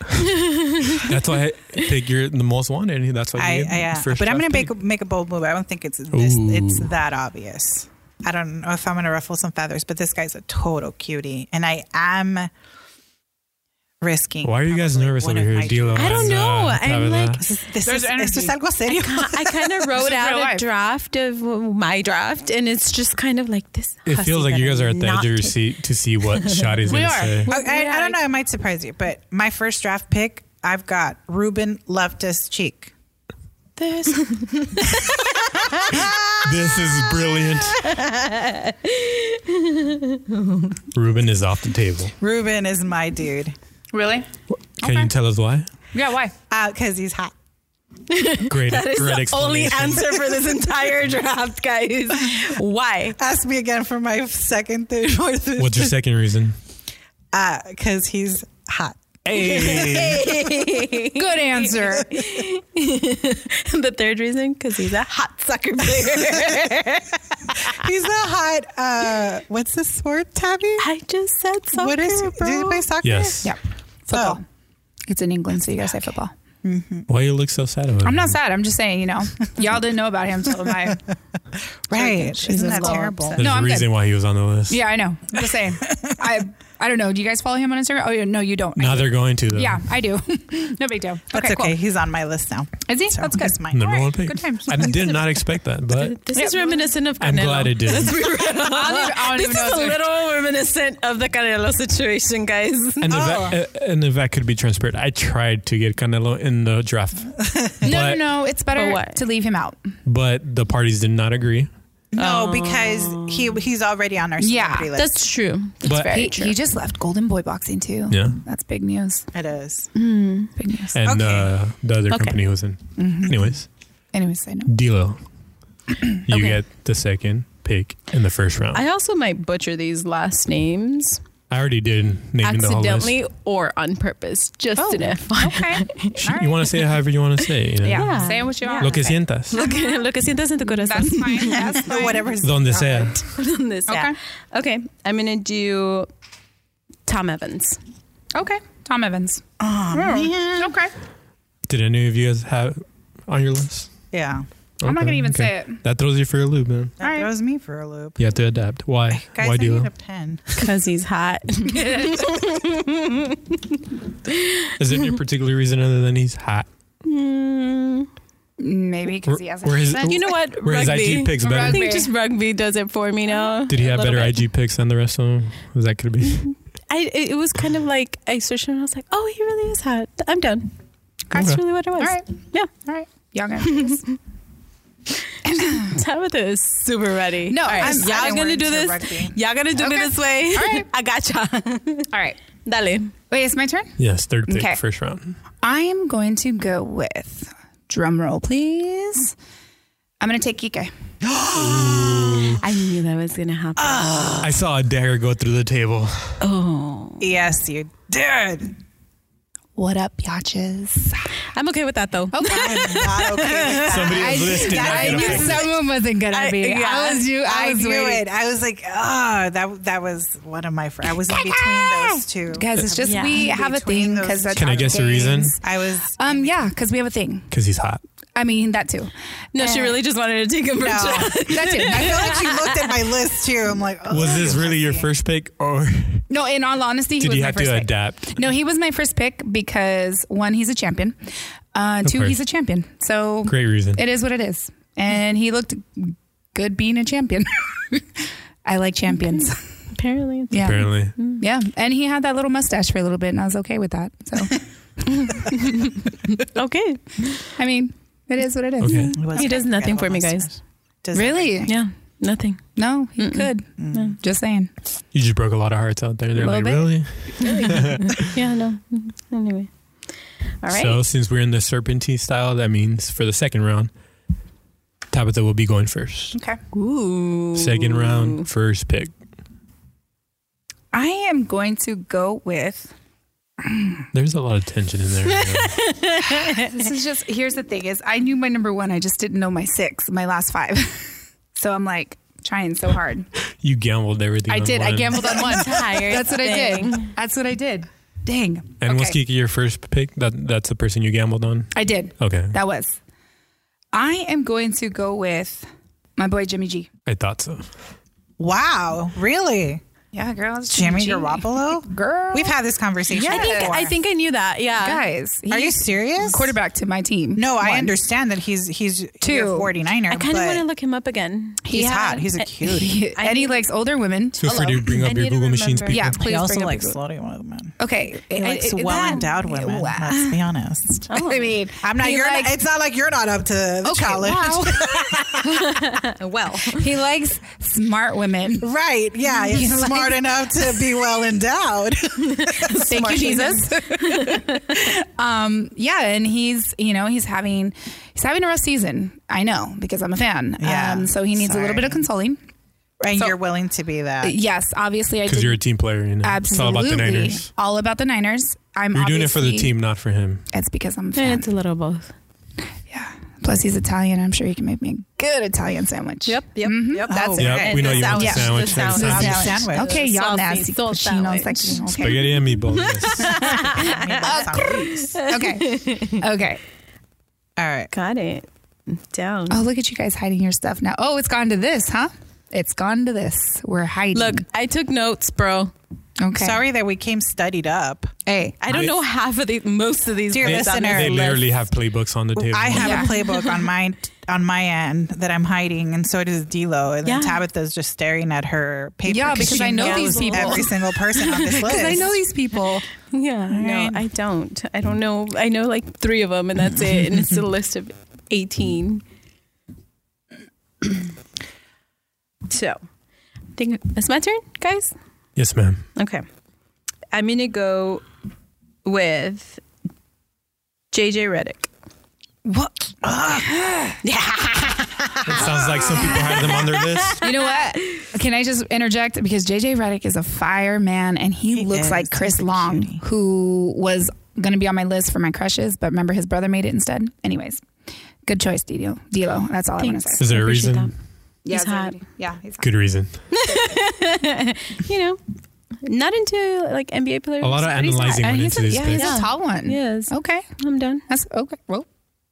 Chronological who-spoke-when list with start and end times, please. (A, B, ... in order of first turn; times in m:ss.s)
0:00.2-0:01.0 A
0:01.0-0:04.7 B
0:03.4-0:12.5 C
0:06.1-0:06.9 B
0:14.0-0:16.6 C
0:14.4-0:17.4 B
0:16.0-0:17.5 A
0:17.4-0:19.8 C
0:17.8-0:18.6 D
0:18.9-0:25.7 A
0:19.9-0:20.7 D
0:24.1-0:27.5 B
0:26.3-0:28.2 A
0:26.9-0:27.6 D
0:27.5-0:32.9 C
0:33.8-0:35.2 A
0:35.8-0:37.2 C
0:36.4-0:37.8 B
0:37.8-0:40.8 A
0:40.9-0:42.1 B
0:42.2-0:43.6 C
0:43.9-0:44.3 D
0:44.5-0:45.7 B
0:44.8-0:45.1 D
0:45.9-0:46.4 D
0:46.5-0:47.3 C
0:48.1-0:53.2 A
0:48.5-0:50.2 B
0:53.2-0:56.0 C
0:55.6-0:56.6 B
0:57.3-1:00.9 C
0:59.2-1:00.3 B
0:59.4-1:07.0 A
1:01.1-1:02.2 D
1:06.3-1:06.9 C
1:07.7-1:10.9 C
1:10.8-1:12.9 A
1:11.7-1:13.5 C
1:13.0-1:13.5 B
1:13.4-1:14.4 D
1:14.1-1:14.4 C
1:15.1-1:16.3 D
1:16.6-1:17.1 C
1:17.1-1:18.4 B
1:18.0-1:21.0 D
1:21.9-1:23.4 C
1:21.9-1:23.9 D
1:22.5-1:23.1 A
1:23.4-1:24.8 B
1:24.7-1:31.8 D
1:28.8-1:29.9 B
1:31.3-1:35.1 C
1:32.9-1:35.2 D
1:33.7-1:36.2 B
1:35.9-1:43.3 A
1:36.4-1:36.9 D
1:37.2-1:38.3 B
1:38.4-1:40.0 D
1:43.0-1:48.2 B
1:43.1-1:43.6 C
1:47.8-1:49.9 D
1:48.7-1:49.2 A
1:50.0-1:51.7 B
1:52.1-1:55.3 C
1:52.2-1:53.6 A
1:54.4-1:54.9 D
1:55.0-1:56.6 A
1:55.8-1:56.2 B
1:56.1-1:59.3 D
1:58.1-1:58.4 B
1:59.3-1:59.9 C
2:00.0-2:00.5 A
2:00.6-2:01.0 D
2:00.9-2:03.7 B
2:01.0-2:01.5 C
2:02.1-2:02.4 A
2:03.0-2:03.5 D
2:04.1-2:04.7 D
2:04.7-2:05.2 B
2:06.3-2:08.8 B
2:06.3-2:06.6 A
2:08.7-2:11.2 A
2:11.5-2:13.2 B
2:12.4-2:16.3 A
2:14.8-2:16.7 D
2:16.2-2:18.2 B
2:17.8-2:20.1 D
2:17.9-2:22.1 A
2:18.8-2:19.6 B
2:20.6-2:22.3 D
2:21.6-2:23.2 C
2:22.4-2:23.2 B
2:23.3-2:26.1 A
2:23.9-2:24.2 D
2:27.1-2:27.8 A
2:28.3-2:30.9 D
2:29.6-2:30.7 C
2:31.6-2:33.9 B
2:34.1-2:34.5 C
2:34.8-2:37.0 B
2:34.8-2:35.8 D
2:37.0-2:38.2 C
2:37.0-2:37.3 D
2:38.2-2:39.9 B
2:39.1-2:40.7 C
2:40.6-2:44.7 A
2:41.7-2:42.0 D
2:44.8-2:46.7 B
2:47.0-2:48.1 A
2:48.6-2:50.2 D
2:49.3-2:51.9 B
2:50.0-2:54.4 A
2:51.4-2:52.1 D
2:53.7-2:56.5 B
2:56.4-3:00.7 A
3:01.3-3:02.7 A
3:01.3-3:04.0 D
3:01.3-3:01.6 B
3:03.6-3:04.2 A
3:05.5-3:05.9 D
3:05.5-3:12.1 A
3:07.5-3:08.4 D
3:07.7-3:09.4 C
3:09.8-3:10.9 D
3:12.1-3:12.4 D
3:12.6-3:13.1 A
3:13.3-3:14.8 D
3:14.0-3:15.4 B
3:15.6-3:19.3 D
3:20.2-3:20.9 D
3:21.2-3:22.6 C
3:21.5-3:22.6 B
3:22.6-3:24.5 A
3:23.8-3:24.5 C
3:24.4-3:26.4 B
3:26.4-3:27.3 A
3:27.2-3:28.7 C
3:29.8-3:31.3 D
3:31.5-3:34.2 A
3:32.3-3:33.5 D
3:32.5-3:35.7 C
3:33.9-3:35.6 B
3:34.1-3:38.2 D
3:34.8-3:35.6 A
3:36.3-3:37.3 A
3:37.4-3:46.5 C
3:41.3-3:45.6 D
3:43.0-3:43.5 A
3:44.5-3:45.6 B
3:46.2-3:47.5 D
3:47.5-3:48.0 B
3:48.4-3:50.0 D
3:49.5-3:53.2 A
3:50.8-3:55.1 C
3:51.5-3:52.4 D
3:54.1-3:56.2 B
3:56.3-4:09.6 D
3:57.2-3:58.4 B
4:02.0-4:02.4 B
4:03.5-4:04.0 B
4:09.3-4:11.4 A
4:10.5-4:15.6 D
4:10.6-4:11.1 B
4:15.3-4:17.5 A
4:17.6-4:19.5 D
4:18.8-4:19.2 B
4:18.9-4:20.5 A
4:19.2-4:21.7 C
4:21.1-4:21.8 D
4:21.7-4:22.6 A
4:22.8-4:24.7 D
4:23.2-4:24.2 A
4:23.8-4:24.2 C
4:25.1-4:28.4 B
4:26.4-4:27.9 D
4:27.4-4:29.7 A
4:30.6-4:31.0 A
4:30.7-4:33.9 B
4:35.1-4:36.4 B
4:36.3-4:36.6 D
4:36.7-4:38.4 A
4:37.6-4:39.1 B
4:40.9-4:42.9 D
4:44.1-4:45.8 B
4:45.3-4:46.9 A
4:46.4-4:53.3 D
4:53.6-4:55.4 B
4:54.5-4:59.2 D
4:55.2-4:57.1 A
4:58.8-5:02.6 B
5:01.7-5:03.0 D
5:03.9-5:06.9 D
5:07.1-5:07.7 B
5:08.4-5:09.8 C
5:10.1-5:12.6 D
5:10.7-5:14.0 C
5:13.1-5:13.8 D
5:13.1-5:15.0 A
5:14.8-5:18.0 D
5:15.5-5:16.6 C
5:17.4-5:20.6 C
5:19.2-5:19.7 D
5:20.1-5:21.6 A
5:21.6-5:23.0 C
5:21.7-5:24.9 D
5:23.2-5:23.6 A
5:24.4-5:26.2 B
5:24.5-5:26.1 A
5:25.9-5:27.0 D
5:26.1-5:27.8 C
5:27.8-5:30.4 D
5:28.3-5:31.1 C
5:28.5-5:29.3 A
5:31.1-5:31.5 A
5:31.1-5:32.6 D
5:31.8-5:35.8 C
5:33.8-5:35.6 D
5:35.6-5:36.8 A
5:36.7-5:38.7 D
5:38.6-5:43.7 C
5:39.3-5:40.8 D
5:42.4-5:44.6 A
5:42.8-5:52.4 D
5:50.6-5:52.0 C
5:53.0-5:54.4 C
5:54.2-5:55.6 D
5:55.3-5:57.5 B
5:56.2-5:59.8 D
5:58.9-6:00.4 B
6:00.5-6:01.5 D
6:01.2-6:02.1 A
6:02.9-6:12.4 D
6:06.3-6:16.2 A
6:06.9-6:09.9 C
6:07.4-6:09.6 B
6:12.0-6:13.6 B
6:13.2-6:16.6 D
6:13.4-6:15.2 C
6:17.6-6:17.9 C
6:17.9-6:19.6 A
6:19.5-6:24.4 D
6:24.1-6:25.7 A
6:26.2-6:26.6 D
6:26.4-6:28.1 C
6:28.3-6:28.6 D
6:28.6-6:31.4 A
6:30.3-6:31.4 C
6:30.4-6:33.0 B
6:32.4-6:42.1 C
6:32.8-6:33.1 D
6:32.9-6:33.7 A
6:37.0-6:37.4 A
6:39.1-6:40.7 D
6:39.3-6:41.7 A
6:41.4-6:42.9 D
6:43.1-6:49.0 A
6:43.5-6:44.0 C
6:52.5-6:52.8 A
6:53.6-6:54.9 A
6:55.4-6:55.9 B
6:56.0-6:56.2 A
6:57.1-6:58.0 A
6:58.8-6:59.6 A
7:00.9-7:01.7 A
7:02.4-7:04.0 D
7:03.0-7:03.5 C
7:04.0-7:04.9 A
7:05.1-7:06.6 C
7:05.3-7:07.2 B
7:05.8-7:07.3 A
7:07.2-7:17.6 D
7:11.6-7:13.0 C
7:18.2-7:20.3 D
7:19.8-7:20.9 A
7:20.2-7:20.9 B
7:21.4-7:22.7 D
7:21.5-7:22.0 A
7:22.6-7:23.2 B
7:23.3-7:25.2 A
7:25.8-7:31.0 A
7:27.4-7:29.2 B
7:28.2-7:30.5 D
7:31.1-7:31.9 D